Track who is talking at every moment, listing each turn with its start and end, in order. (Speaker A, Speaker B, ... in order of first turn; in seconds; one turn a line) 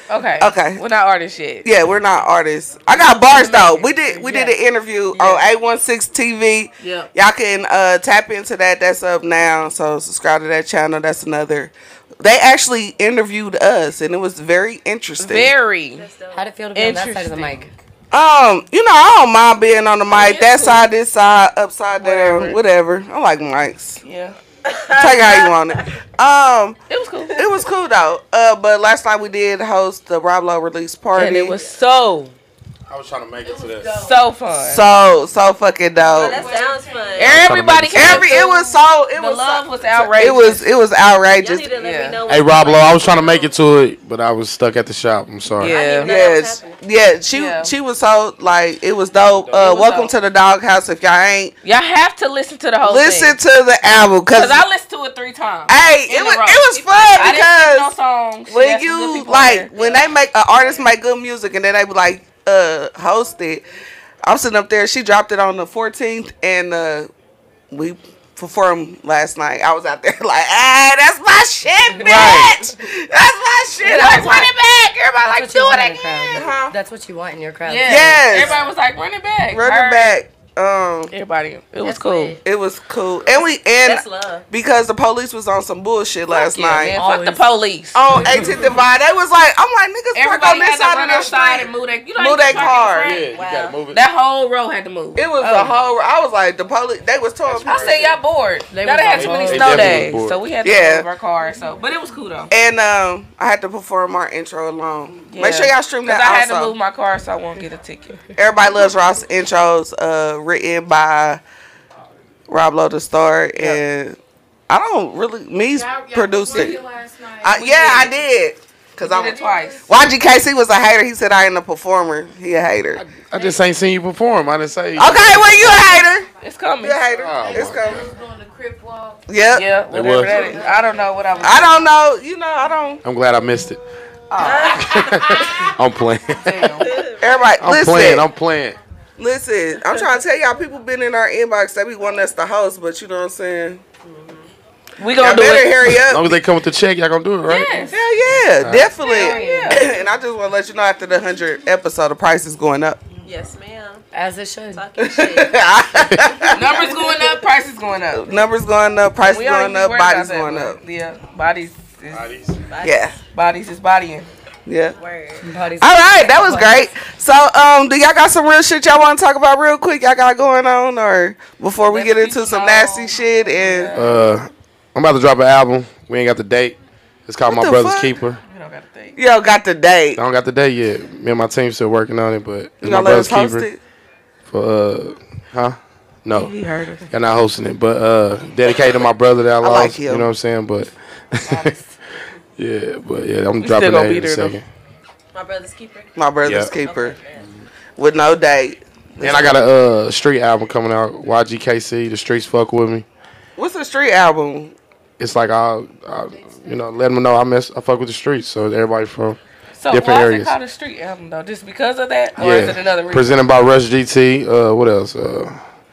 Speaker A: 0.1-1.7
Speaker B: 0.4-0.8
Speaker B: 1.6-15.5
Speaker A: 3.3-4.5
Speaker A: 5.1-5.5
Speaker A: 6.8-7.1
Speaker A: 15.2-16.1
Speaker C: 15.9-16.5
Speaker D: 16.3-17.7
Speaker A: 16.8-17.7
Speaker B: 18.1-24.0
Speaker A: 20.1-20.9
Speaker A: 22.0-22.6
Speaker A: 24.0-24.4
Speaker C: 24.7-25.5
Speaker B: 25.0-26.8
Speaker A: 25.0-25.4
Speaker A: 26.9-27.4
Speaker B: 27.3-31.6
Speaker A: 31.2-32.3
Speaker E: 32.9-34.0
Speaker F: 33.4-34.2
Speaker A: 34.0-34.8
Speaker B: 34.6-36.4
Speaker F: 36.0-37.2
Speaker C: 36.1-37.4
Speaker A: 37.2-40.7
Speaker E: 37.2-38.3
Speaker B: 37.9-41.7
Speaker C: 41.4-43.5
Speaker A: 41.7-42.2
Speaker E: 42.3-45.7
Speaker A: 45.6-46.2
Speaker C: 45.6-46.8
Speaker B: 46.0-51.5
Speaker A: 47.3-47.7
Speaker A: 49.5-50.1
Speaker A: 51.6-53.4
Speaker B: 52.8-54.6
Speaker A: 54.3-59.7
Speaker B: 55.7-57.9
Speaker B: 58.5-63.6
Speaker B: 64.2-67.1
Speaker B: 67.7-74.5
Speaker A: 72.0-72.6
Speaker A: 73.8-76.4
Speaker D: 75.3-78.3
Speaker B: 76.3-76.8
Speaker A: 77.6-80.2
Speaker B: 77.8-78.6
Speaker C: 78.4-78.7
Speaker B: 79.5-81.1
Speaker A: 81.1-82.4
Speaker C: 81.8-82.4
Speaker B: 82.4-87.0
Speaker C: 83.8-84.5
Speaker A: 86.3-88.0
Speaker D: 87.0-87.4
Speaker B: 87.9-93.2
Speaker A: 90.2-93.3
Speaker E: 93.0-94.0
Speaker C: 93.3-93.8
Speaker A: 93.9-95.8
Speaker B: 95.2-98.1
Speaker C: 97.6-97.9
Speaker A: 97.7-102.5
Speaker D: 98.7-100.1
Speaker E: 99.2-100.4
Speaker B: 100.6-101.1
Speaker B: 102.5-106.7
Speaker A: 105.3-108.2
Speaker B: 108.4-111.4
Speaker B: 112.5-114.2
Speaker B: 114.7-116.8
Speaker F: 115.7-118.1
Speaker B: 117.4-123.0
Speaker A: 117.6-118.1
Speaker A: 119.0-119.9
Speaker F: 119.2-120.0
Speaker E: 123.1-125.9
Speaker B: 125.0-126.3
Speaker F: 125.8-126.1
Speaker A: 126.4-127.0
Speaker B: 126.8-128.1
Speaker E: 127.2-127.9
Speaker F: 127.2-129.2
Speaker B: 129.3-129.7
Speaker A: 129.5-131.7
Speaker E: 129.9-130.4
Speaker F: 130.3-131.7
Speaker B: 131.4-133.0
Speaker E: 133.0-133.8
Speaker A: 134.3-134.8
Speaker C: 134.4-135.4
Speaker E: 134.7-136.8
Speaker F: 135.3-135.8
Speaker A: 136.3-137.0
Speaker C: 136.8-137.1
Speaker B: 137.2-138.3
Speaker E: 137.6-138.8
Speaker B: 139.2-143.8
Speaker C: 144.0-144.5
Speaker A: 145.0-145.9
Speaker B: 145.2-146.3
Speaker E: 145.9-147.8
Speaker A: 147.5-148.0
Speaker B: 147.9-153.0
Speaker E: 148.6-148.9
Speaker A: 149.1-149.8
Speaker C: 149.1-149.8
Speaker D: 149.2-149.7
Speaker C: 153.2-154.0
Speaker D: 154.1-154.9
Speaker C: 154.7-155.6
Speaker B: 155.0-156.9
Speaker A: 156.5-158.3
Speaker B: 158.1-160.8
Speaker A: 159.2-162.3
Speaker E: 162.1-162.7
Speaker C: 162.7-163.1
Speaker B: 162.8-163.2
Speaker A: 163.3-164.3
Speaker B: 164.7-164.9
Speaker C: 165.0-165.5
Speaker D: 165.4-166.8
Speaker B: 165.8-173.9
Speaker A: 171.9-174.2
Speaker E: 173.9-178.4
Speaker B: 177.5-178.1
Speaker A: 178.5-179.2
Speaker B: 179.2-180.2
Speaker E: 180.2-183.7
Speaker B: 182.8-183.8
Speaker E: 184.5-186.5
Speaker A: 186.3-187.1
Speaker E: 187.1-191.7
Speaker B: 189.6-190.3
Speaker E: 192.6-194.7
Speaker A: 193.6-194.6
Speaker C: 195.3-197.5
Speaker B: 196.2-197.2
Speaker E: 196.4-196.7
Speaker B: 198.0-199.5
Speaker E: 199.2-203.1
Speaker B: 203.6-204.8
Speaker E: 205.2-209.4
Speaker F: 206.4-206.7
Speaker A: 209.8-213.4
Speaker E: 209.9-210.5
Speaker E: 212.4-215.6